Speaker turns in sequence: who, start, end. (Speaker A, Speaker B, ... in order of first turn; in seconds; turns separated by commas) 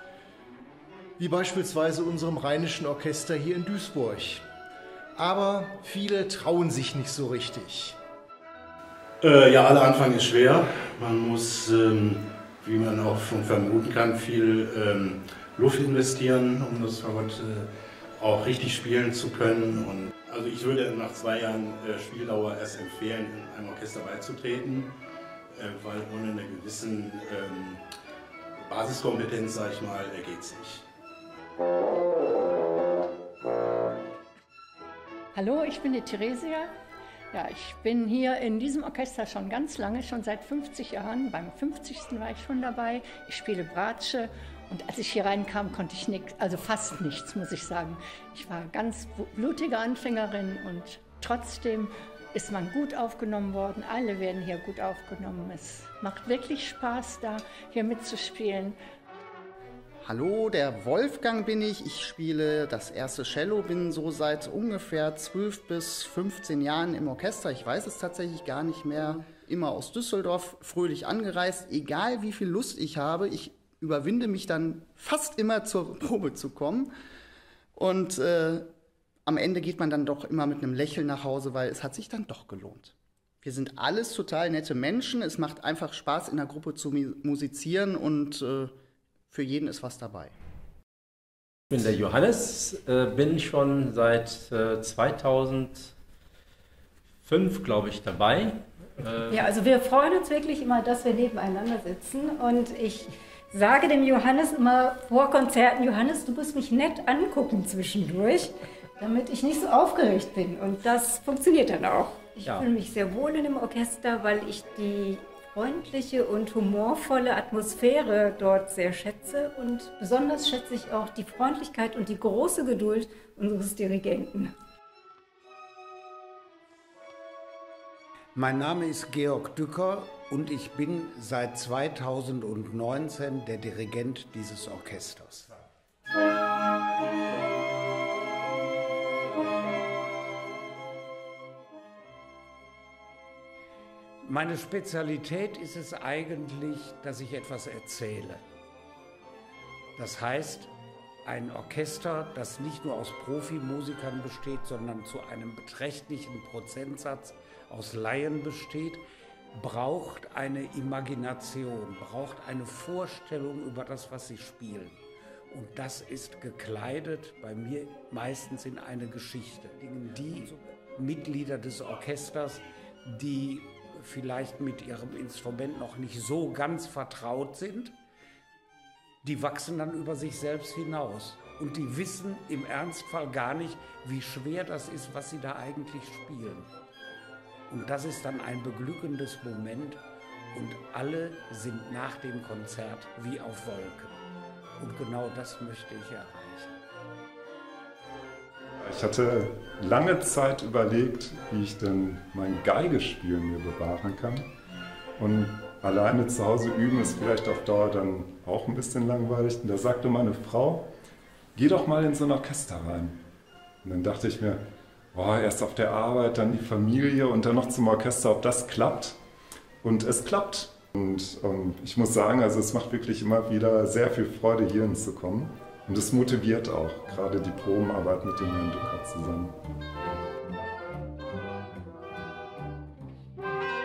Speaker A: 1.2-4.4, Speaker A: 5.2-8.0, Speaker B: 9.2-24.9, Speaker B: 25.5-27.8, Speaker B: 28.6-30.8, Speaker C: 35.3-36.7, Speaker C: 37.3-58.8, Speaker D: 60.0-76.9, Speaker D: 77.8-78.7, Speaker D: 79.2-88.7, Speaker D: 89.3-90.3, Speaker E: 91.7-95.9, Speaker E: 97.2-99.4, Speaker F: 99.3-124.5, Speaker E: 112.4-112.7, Speaker G: 128.3-135.6, Speaker G: 144.2-148.4, Speaker G: 149.9-150.7, Speaker G: 151.2-159.0, Speaker G: 159.5-165.0, Speaker G: 165.5-177.9, Speaker G: 179.2-186.7, Speaker G: 187.7-194.2, Speaker G: 194.8-196.8, Speaker H: 198.8-204.5, Speaker H: 205.2-210.9, Speaker H: 211.5-213.2, Speaker H: 213.8-214.6, Speaker H: 215.1-219.2, Speaker H: 219.8-229.6